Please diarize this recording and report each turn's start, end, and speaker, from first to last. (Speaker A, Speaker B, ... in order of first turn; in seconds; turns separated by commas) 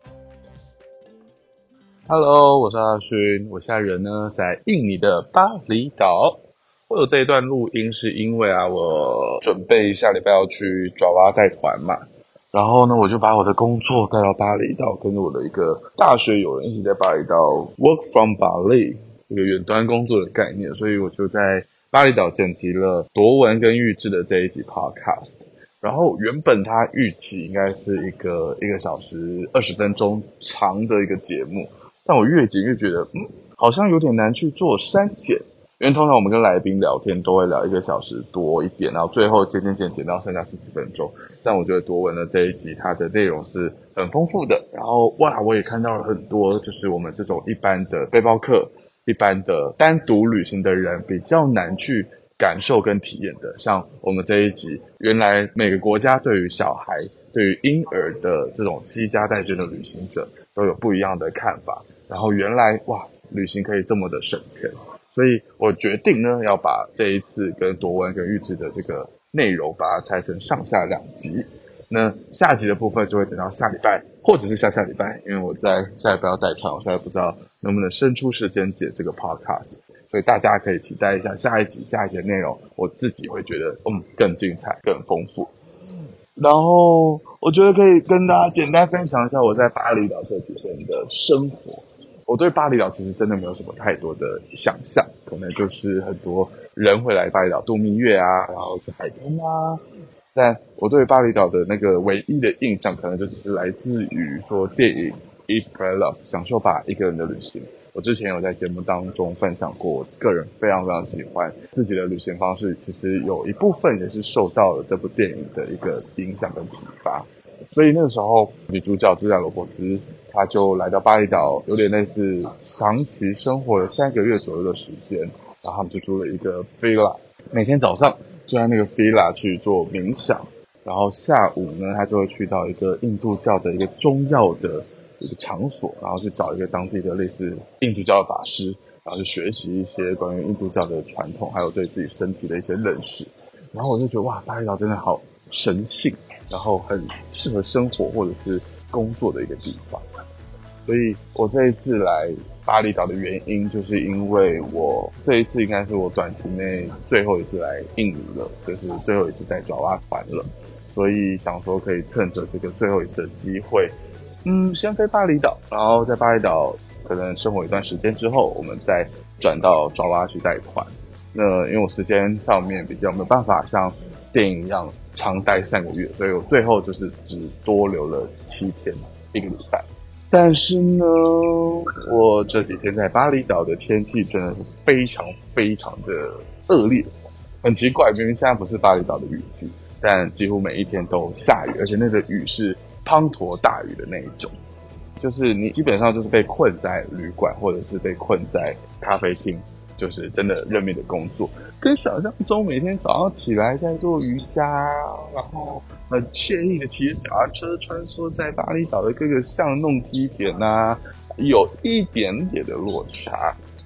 Speaker A: 2.1-85.5, Speaker A: 86.3-99.8, Speaker A: 100.3-150.0, Speaker A: 150.8-187.1, Speaker A: 187.6-194.5, Speaker A: 195.2-213.6